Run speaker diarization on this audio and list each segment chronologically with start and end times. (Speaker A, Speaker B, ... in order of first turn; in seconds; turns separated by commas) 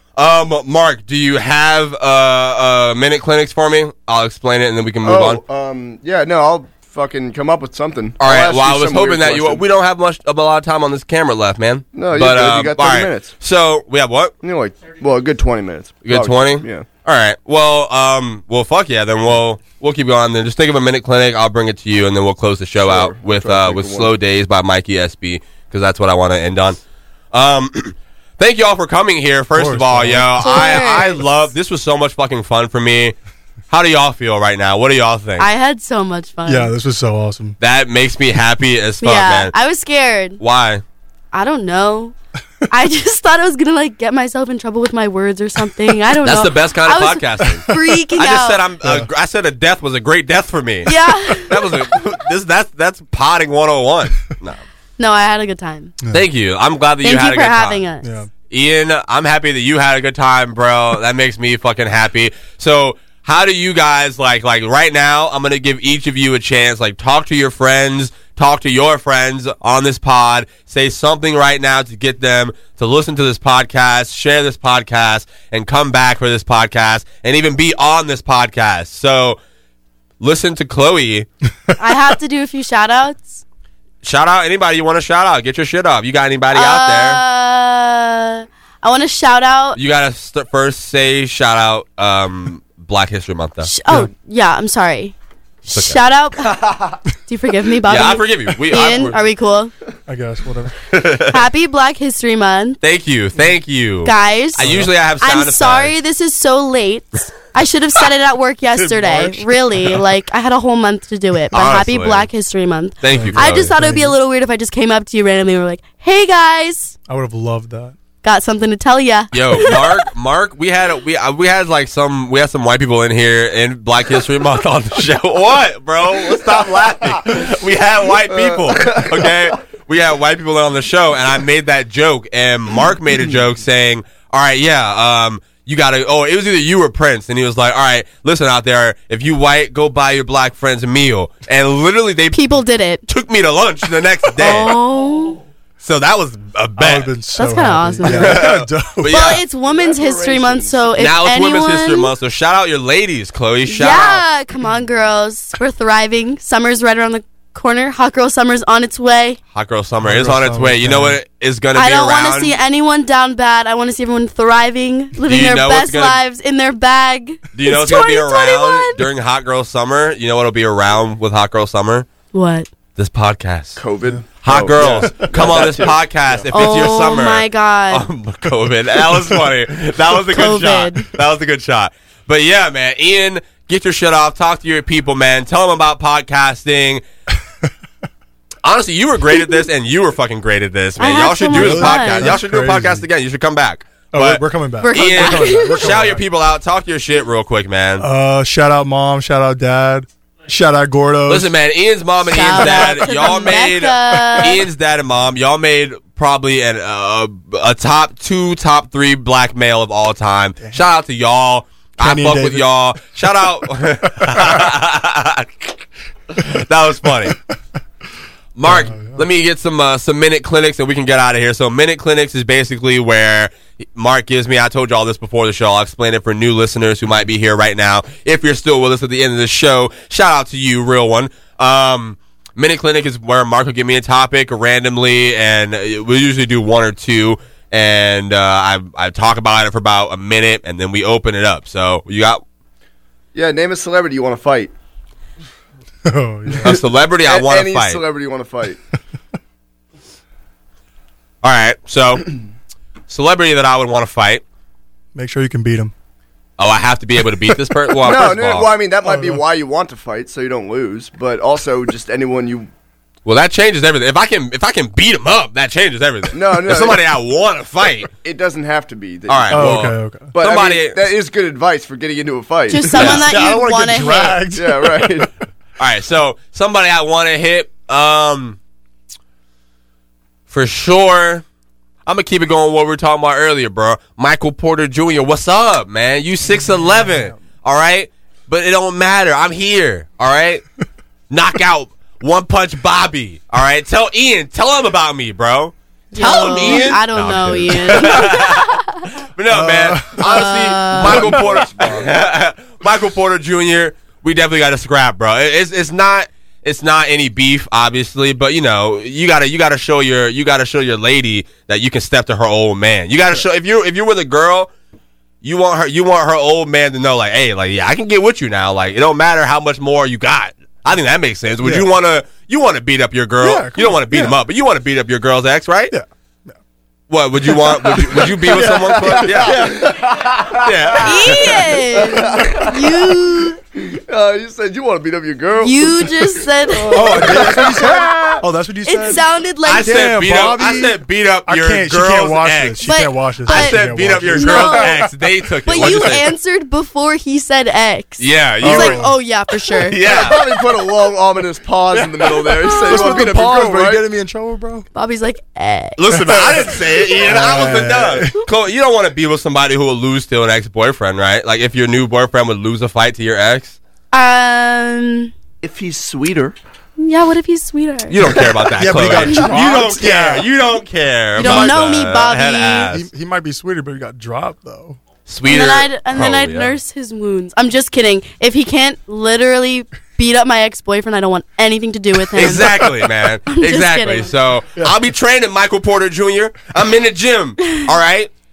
Speaker A: 0.1-5.4, Speaker B: 5.0-9.6, Speaker A: 8.2-14.3, Speaker B: 11.9-13.3, Speaker B: 14.4-16.9, Speaker A: 16.0-26.8, Speaker B: 22.8-24.1, Speaker A: 27.3-33.1, Speaker C: 29.5-30.5, Speaker D: 30.4-31.2, Speaker A: 33.7-35.5, Speaker D: 35.4-36.7, Speaker C: 36.5-37.6, Speaker A: 37.6-39.5, Speaker D: 39.0-40.4, Speaker A: 40.4-40.8, Speaker D: 41.3-42.1, Speaker D: 42.7-48.6, Speaker A: 46.2-54.6, Speaker C: 48.8-49.1, Speaker D: 50.9-51.6, Speaker D: 55.0-55.9, Speaker A: 56.1-57.8, Speaker D: 57.0-58.1, Speaker C: 58.0-58.3, Speaker A: 58.5-79.4, Speaker A: 80.2-81.3, Speaker D: 81.8-83.4, Speaker A: 84.0-87.2, Speaker D: 86.5-89.8, Speaker A: 89.8-93.7, Speaker D: 93.6-96.5, Speaker A: 95.7-97.0, Speaker D: 97.3-99.7, Speaker A: 97.8-99.2, Speaker C: 100.1-100.8, Speaker A: 100.9-101.4, Speaker D: 101.3-102.8, Speaker A: 102.8-105.9, Speaker D: 104.0-104.6, Speaker C: 104.6-104.9, Speaker D: 105.2-116.9, Speaker C: 108.8-109.5, Speaker A: 111.5-112.3, Speaker A: 113.0-113.7, Speaker C: 113.1-114.2, Speaker C: 117.1-118.0, Speaker D: 118.2-120.0, Speaker A: 119.3-142.5, Speaker B: 128.3-129.3, Speaker D: 142.3-143.0, Speaker A: 143.1-144.7, Speaker D: 144.3-145.4, Speaker A: 145.8-147.1, Speaker C: 146.8-149.1, Speaker D: 147.3-148.5, Speaker A: 148.0-149.4, Speaker D: 149.1-152.1, Speaker B: 149.6-150.9, Speaker A: 151.0-154.2, Speaker D: 153.7-159.4, Speaker A: 159.5-162.6, Speaker C: 160.0-161.2, Speaker D: 161.7-169.0, Speaker A: 165.2-166.2, Speaker A: 167.5-172.1, Speaker D: 172.3-172.7, Speaker A: 173.0-173.8, Speaker B: 173.8-176.5, Speaker A: 174.4-187.0, Speaker C: 174.8-175.3, Speaker D: 176.5-178.1, Speaker D: 180.3-181.1, Speaker A: 188.6-198.1, Speaker D: 191.0-192.3, Speaker C: 191.5-193.1, Speaker C: 194.1-196.2, Speaker D: 194.8-195.9, Speaker C: 198.0-201.5, Speaker A: 201.3-215.8, Speaker D: 202.2-204.6, Speaker C: 202.6-203.1, Speaker C: 212.0-212.7, Speaker A: 216.3-217.3, Speaker A: 218.6-242.4, Speaker C: 218.6-219.2, Speaker B: 243.3-244.7, Speaker C: 246.0-246.8, Speaker B: 246.5-248.8, Speaker A: 246.6-248.0, Speaker A: 251.4-252.2, Speaker A: 253.1-254.4, Speaker C: 255.1-255.9, Speaker A: 256.6-258.7, Speaker B: 258.0-262.7, Speaker C: 259.0-259.4, Speaker A: 263.2-268.1, Speaker B: 266.3-267.0, Speaker B: 268.2-273.0, Speaker A: 269.3-271.0, Speaker C: 269.5-270.3, Speaker D: 272.7-274.4, Speaker C: 272.9-275.3, Speaker A: 272.9-273.3, Speaker B: 274.5-275.3, Speaker A: 275.8-278.6, Speaker A: 280.5-281.4, Speaker A: 282.1-290.6, Speaker C: 286.4-287.3, Speaker A: 291.3-314.7, Speaker D: 296.1-299.0, Speaker C: 299.5-300.3, Speaker D: 300.2-301.3, Speaker B: 301.0-302.1, Speaker A: 315.4-325.9, Speaker C: 323.4-324.3, Speaker C: 325.9-326.5, Speaker A: 327.1-329.7, Speaker C: 327.5-329.8, Speaker B: 327.9-332.8, Speaker A: 330.5-331.7, Speaker D: 331.0-333.6, Speaker B: 333.8-338.4, Speaker D: 335.6-337.1, Speaker C: 336.9-339.2, Speaker A: 337.0-337.7, Speaker D: 338.8-340.0, Speaker A: 339.6-342.9, Speaker C: 339.8-346.1, Speaker D: 342.8-343.8, Speaker A: 343.4-346.3, Speaker D: 344.3-345.0, Speaker D: 345.6-350.0, Speaker A: 348.2-349.0, Speaker C: 348.6-349.1, Speaker A: 349.9-350.5, Speaker B: 350.0-354.1, Speaker C: 351.9-354.8, Speaker D: 352.8-353.1, Speaker D: 354.9-356.0, Speaker A: 356.0-363.8, Speaker C: 356.1-358.3, Speaker D: 364.1-365.3, Speaker B: 365.6-366.6, Speaker D: 367.0-368.2, Speaker A: 368.1-373.1, Speaker C: 368.8-370.5, Speaker D: 371.4-372.9, Speaker C: 371.4-371.7, Speaker C: 372.9-375.0, Speaker A: 375.3-376.8, Speaker D: 375.4-382.9, Speaker A: 382.3-388.3, Speaker D: 383.5-384.3